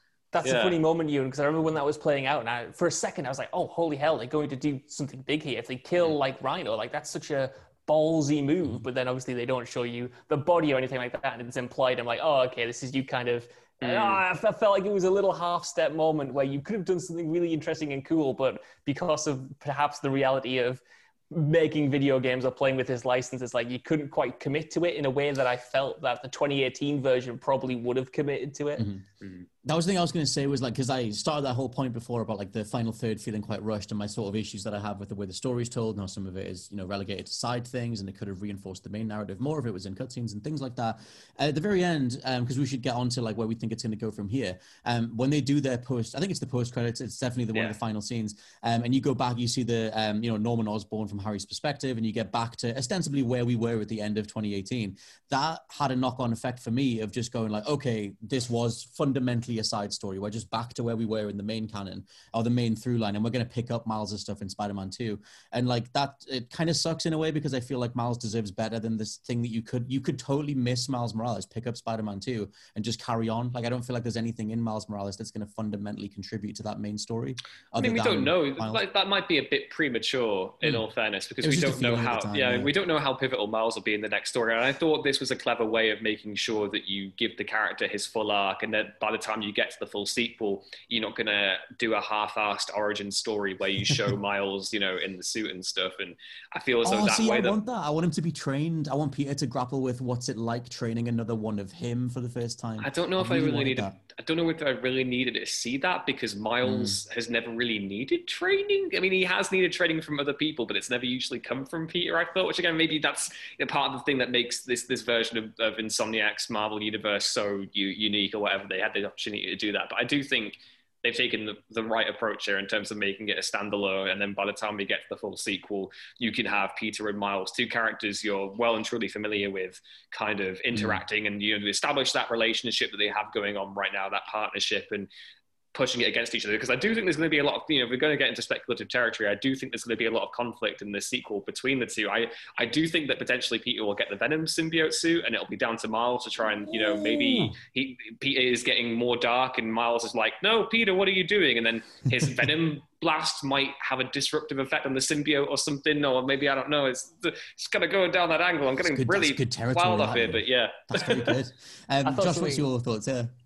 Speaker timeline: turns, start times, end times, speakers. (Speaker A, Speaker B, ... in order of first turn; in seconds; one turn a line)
Speaker A: 0.3-28.8
Speaker B: 0.4-0.8
Speaker B: 13.8-14.2
Speaker C: 28.8-29.0
Speaker C: 29.6-78.8
Speaker B: 77.8-97.5
Speaker C: 81.4-82.7
Speaker C: 96.8-104.0
Speaker B: 102.8-135.1
Speaker C: 106.6-107.0
Speaker C: 130.7-131.0
Speaker B: 135.7-161.4
Speaker C: 146.7-147.5
Speaker C: 158.8-163.3
Speaker A: 162.0-162.7